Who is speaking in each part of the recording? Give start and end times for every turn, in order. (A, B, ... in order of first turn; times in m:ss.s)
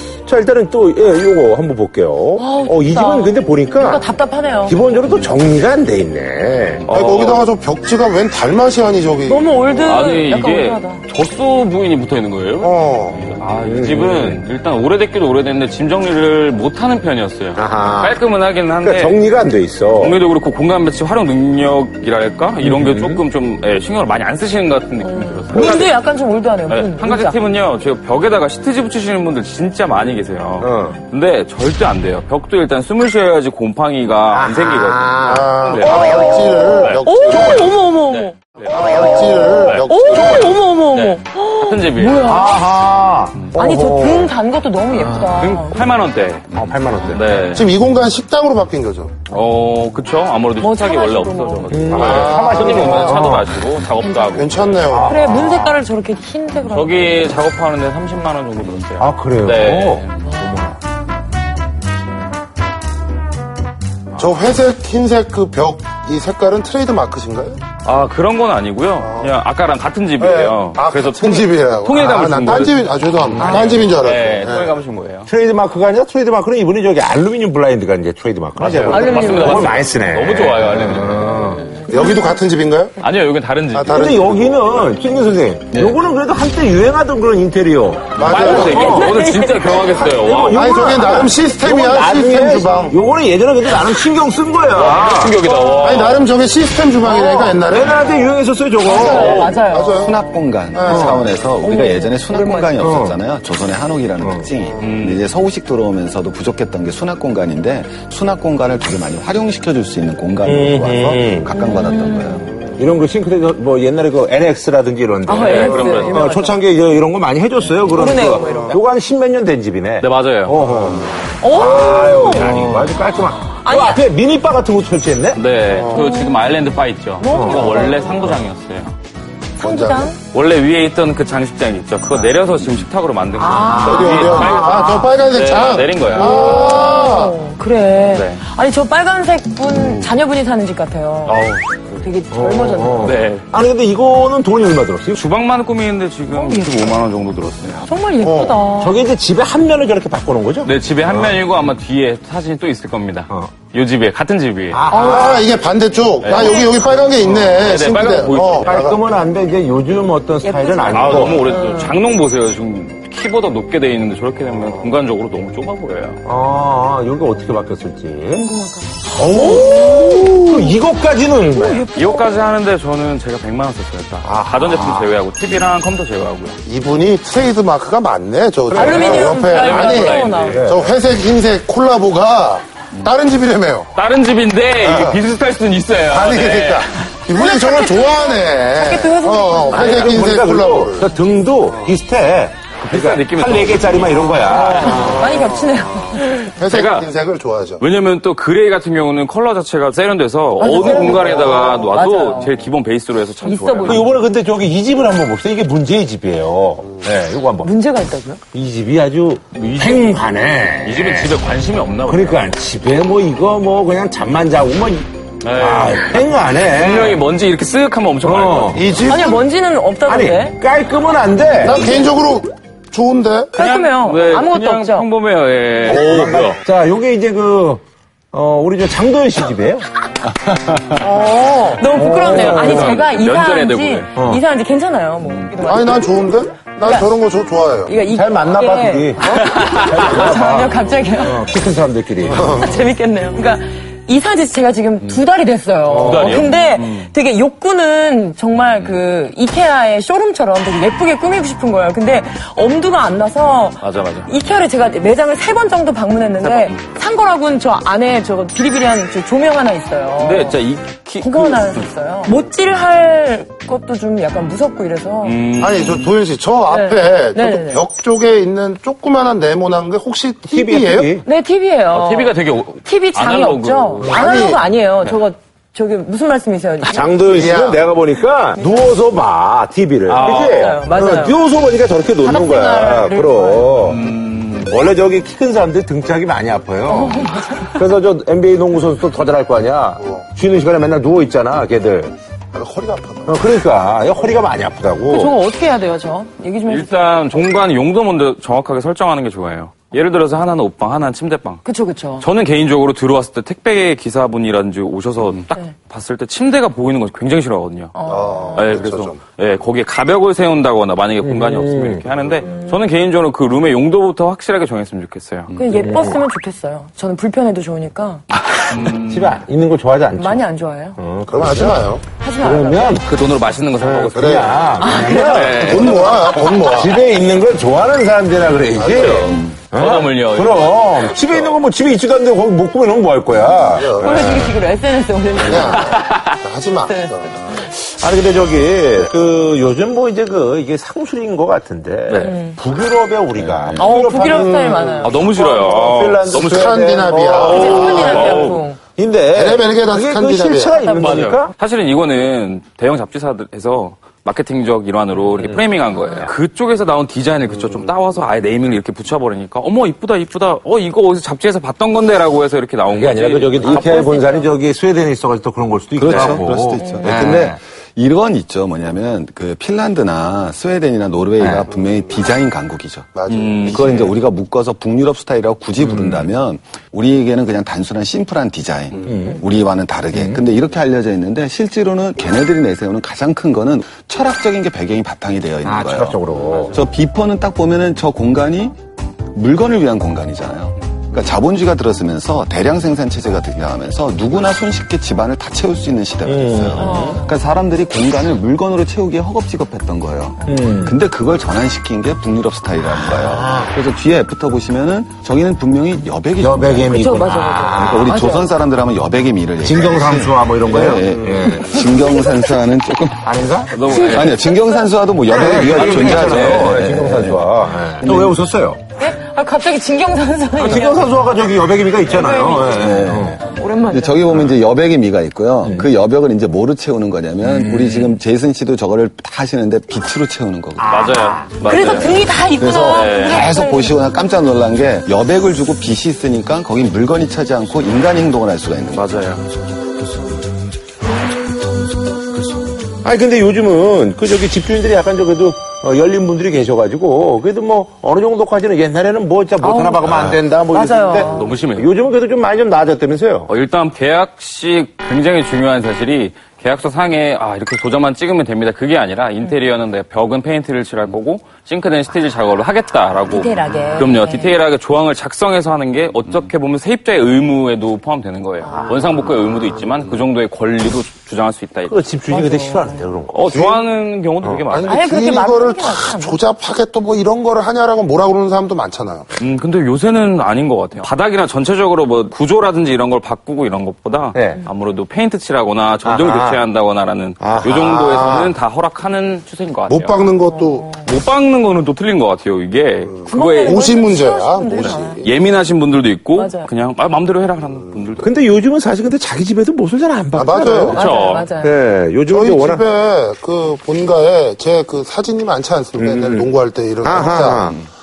0:00.2-0:04.1 A
0:02.4-0:04.9 B
0:04.7-0:06.9 A
0:05.1-0:05.4 C
0:06.8-0:07.5 C
0:06.9-0:09.5 D
0:09.3-0:11.0 B
0:09.8-0:19.2 C
0:12.6-0:13.2 D
0:13.6-0:14.4 A
0:17.6-0:18.2 A
0:18.8-0:20.2 A
0:20.0-0:25.9 C
0:22.6-0:23.2 A
0:25.0-0:27.4 B
0:26.7-0:37.1 C
0:30.6-0:31.0 A
0:34.3-0:36.1 A
0:35.3-0:37.8 D
0:35.8-0:42.6 B
0:37.3-0:37.7 A
0:38.1-0:40.4 C
0:38.6-0:40.6 D
0:38.8-0:39.5 A
0:40.1-0:40.6 A
0:40.9-0:42.3 C
0:42.2-0:44.4 A
0:43.6-0:45.8 B
0:44.9-0:45.6 A
0:45.4-0:46.5 C
0:46.5-0:47.3 A
0:47.1-0:47.7 C
0:47.5-0:49.2 D
0:49.3-0:55.0 C
0:50.6-0:51.8 B
0:51.7-0:53.6 A
0:51.8-0:53.3 D
0:53.9-0:54.4 B
0:54.3-0:55.2 D
0:54.9-0:55.8 A
0:55.0-0:57.4 B
0:56.7-1:00.2 C
0:59.0-1:00.8 A
1:00.3-1:00.5 B
1:04.2-1:07.6 D
1:07.8-1:15.3 C
1:09.0-1:09.4 D
1:10.2-1:14.7 D
1:13.4-1:13.7 B
1:15.3-1:21.8 A
1:18.6-1:19.0 D
1:18.7-1:21.4 C
1:18.9-1:19.8 B
1:21.4-1:22.2 B
1:21.8-1:23.0 D
1:23.0-1:24.1 C
1:23.7-1:24.7 D
1:23.9-1:29.2 A
1:25.7-1:26.0 E
1:28.2-1:29.0 D
1:28.2-1:30.7 C
1:28.6-1:30.0 B
1:29.7-1:35.4 A
1:30.5-1:33.0 D
1:34.7-1:36.3 C
1:35.8-1:38.2 D
1:37.0-1:37.5 B
1:37.6-1:39.5 A
1:38.8-1:40.1 B
1:38.9-1:41.1 D
1:39.0-1:39.5 E
1:40.0-1:52.5 E
1:40.9-1:41.3 A
1:41.6-1:42.7 B
1:42.8-1:43.2 A
1:44.2-1:44.5 A
1:44.6-1:44.9 D
1:44.8-1:45.2 C
1:50.4-1:51.5 A
1:51.6-1:52.5 B
1:52.5-1:52.8 D
1:52.8-2:05.4 A
1:55.2-1:56.6 B
1:55.3-1:56.2 C
1:57.9-1:58.8 B
1:58.3-1:58.8 D
2:00.0-2:00.6 C
2:00.6-2:01.4 D
2:01.4-2:02.6 B
2:02.3-2:03.0 C
2:03.3-2:04.0 B
2:05.3-2:08.9 C
2:05.7-2:06.1 D
2:05.9-2:06.5 B
2:07.2-2:08.5 B
2:07.3-2:07.8 A
2:09.6-2:10.1 D
2:09.6-2:10.2 B
2:10.3-2:16.5 C
2:13.4-2:14.1 B
2:13.6-2:15.1 A
2:13.8-2:17.4 D
2:16.1-2:21.4 B
2:18.0-2:18.4 C
2:21.3-2:22.0 C
2:22.0-2:23.1 B
2:22.3-2:25.2 A
2:23.0-2:23.5 C
2:25.1-2:27.9 C
2:26.3-2:27.0 B
2:27.8-2:29.0 B
2:28.2-2:28.6 D
2:28.8-2:31.4 A
2:30.6-2:34.8 C
2:34.7-2:35.5 A
2:34.9-2:39.0 D
2:36.2-2:36.8 C
2:36.4-2:36.7 B
2:37.2-2:37.7 A
2:37.4-2:38.9 C
2:38.6-2:41.4 A
2:40.4-2:42.0 B
2:40.9-2:46.2 C
2:44.6-2:44.9 D
2:46.2-2:48.5 A
2:48.4-2:50.8 B
2:49.0-2:51.9 A
2:51.5-2:52.6 B
2:52.0-2:56.6 C
2:54.2-2:55.2 A
2:56.6-3:03.9 D
2:58.7-2:59.3 A
2:58.7-3:00.7 C
2:58.8-3:00.6 B
3:00.5-3:00.9 A
3:04.0-3:07.2 C
3:04.8-3:05.2 D
3:06.1-3:11.1 D
3:07.4-3:09.8 B
3:09.7-3:15.3 A
3:09.8-3:10.2 C
3:11.6-3:12.0 D
3:12.8-3:15.2 C
3:14.6-3:16.5 B
3:14.8-3:15.8 D
3:16.4-3:17.8 D
3:16.6-3:17.1 C
3:17.8-3:24.1 C
3:20.6-3:22.6 B
3:21.3-3:21.8 D
3:23.4-3:24.1 B
3:23.8-3:27.7 A
3:27.6-3:28.4 B
3:28.5-3:31.4 A
3:29.5-3:30.2 C
3:30.8-3:32.5 C
3:32.1-3:37.2 A
3:35.4-3:39.0 C
3:38.2-3:38.9 A
3:38.7-3:39.4 D
3:39.1-3:40.6 B
3:40.1-3:42.1 A
3:41.6-3:43.6 D
3:43.6-3:45.1 B
3:43.6-3:46.6 C
3:45.9-3:53.0 A
3:51.0-3:56.2 B
3:52.1-3:54.1 C
3:54.2-3:54.4 A
3:55.6-3:58.0 D
3:56.8-3:57.1 B
3:57.8-4:01.5 B
3:58.1-4:02.5 A
3:59.4-3:59.9 C
4:02.3-4:02.8 D
4:02.5-4:20.6 B
4:05.9-4:06.5 A
4:06.0-4:07.1 C
4:13.8-4:14.3 C
4:16.4-4:16.8 C
4:20.2-4:21.9 C
4:21.2-4:25.4 B
4:25.2-4:26.2 C
4:25.6-4:31.1 D
4:26.7-4:27.8 B
4:30.4-4:31.3 A
4:31.2-4:37.3 B
4:31.9-4:34.4 C
4:34.0-4:34.6 D
4:36.8-4:44.0 A
4:37.3-4:37.9 D
4:38.6-4:39.0 B
4:40.1-4:40.8 C
4:40.2-4:41.4 B
4:42.2-4:43.8 B
4:43.8-4:44.7 C
4:44.6-4:52.2 A
4:46.9-4:47.8 B
4:50.0-4:50.3 D
4:52.5-4:53.4 D
4:53.3-4:55.4 A
4:55.1-4:57.1 B
4:56.7-5:01.6 C
5:01.6-5:02.3 B
5:02.2-5:08.0 C
5:07.9-5:08.8 B
5:08.1-5:09.2 D
5:08.6-5:15.5 C
5:11.2-5:12.1 A
5:12.4-5:12.8 B
5:15.5-5:15.8 E
5:15.5-5:18.2 B
5:15.7-5:16.2 A
5:18.4-5:19.4 C
5:18.7-5:21.8 A
5:20.1-5:21.0 B
5:21.3-5:22.1 D
5:22.1-5:23.1 B
5:22.4-5:23.1 A
5:23.0-5:26.5 C
5:23.8-5:34.5 A
5:24.2-5:27.0 D
5:24.8-5:25.9 B
5:28.7-5:29.4 D
5:28.9-5:31.1 C
5:29.0-5:29.6 E
5:33.6-5:34.5 D
5:34.0-5:36.0 B
5:35.4-5:37.6 D
5:35.5-5:36.3 C
5:36.8-5:37.2 B
5:37.5-5:51.5 A
5:42.1-5:42.4 C
5:42.2-5:42.6 B
5:43.4-5:43.9 E
5:43.8-5:45.2 B
5:44.2-5:45.2 D
5:45.0-5:46.8 C
5:46.3-5:48.4 D
5:47.3-5:48.6 C
5:47.4-5:48.8 B
5:49.4-5:50.8 D
5:50.7-5:51.2 B
5:50.9-6:04.2 C
5:55.4-5:56.3 A
5:56.0-5:56.3 B
6:02.9-6:07.6 A
6:03.8-6:04.5 B
6:06.0-6:26.2 E
6:06.2-6:07.2 B
6:11.4-6:11.7 A
6:11.7-6:12.0 D
6:13.1-6:14.0 D
6:13.3-6:13.9 C
6:13.8-6:14.1 A
6:15.8-6:16.3 A
6:19.0-6:19.4 A
6:20.1-6:20.4 A
6:25.6-6:26.8 A
6:26.7-6:28.8 E
6:29.3-6:47.2 E
6:36.3-6:37.2 A
6:36.8-6:37.3 B
6:40.4-6:40.7 B
6:40.4-6:41.0 A
6:42.9-6:43.8 A
6:46.4-6:48.2 A
6:46.9-6:48.5 B
6:47.7-6:53.3 E
6:49.6-6:51.7 A
6:50.9-6:51.5 D
6:53.2-6:53.8 A
6:53.7-6:54.4 C
6:53.8-6:54.8 B
6:53.9-6:58.4 E
6:55.3-6:58.8 A
6:55.6-6:56.8 C
6:59.0-7:01.2 B
7:00.6-7:03.4 A
7:02.0-7:02.9 B
7:02.6-7:11.2 E
7:03.5-7:04.2 B
7:05.6-7:05.9 A
7:07.4-7:08.2 A
7:10.8-7:11.7 A
7:10.9-7:13.5 C
7:11.6-7:14.0 B
7:11.7-7:19.3 E
7:18.9-7:19.5 C
7:23.0-7:33.5 A
7:29.6-7:31.5 B
7:31.3-7:31.9 C
7:33.5-7:52.0 C
7:43.3-7:44.6 B
7:43.7-7:44.1 A
7:48.6-7:49.0 B
7:48.7-7:49.3 A
7:51.9-7:53.6 A
7:52.3-7:53.0 B
7:53.3-7:55.1 C
7:53.5-7:53.8 D
7:54.7-7:59.3 D
7:54.9-7:56.4 B
7:59.4-8:10.3 C
8:04.3-8:04.6 A
8:06.0-8:06.6 A
8:07.4-8:08.5 A
8:09.9-8:10.9 D
8:10.5-8:11.1 B
8:11.0-8:14.0 C
8:13.0-8:15.3 D
8:13.3-8:15.2 B
8:14.7-8:18.4 C
8:16.3-8:16.7 B
8:18.2-8:21.0 A
8:20.4-8:21.1 D
8:20.9-8:21.8 B
8:20.9-8:21.5 C
8:21.6-8:22.8 A
8:22.3-8:27.8 D
8:26.0-8:26.5 A
8:27.0-8:27.8 A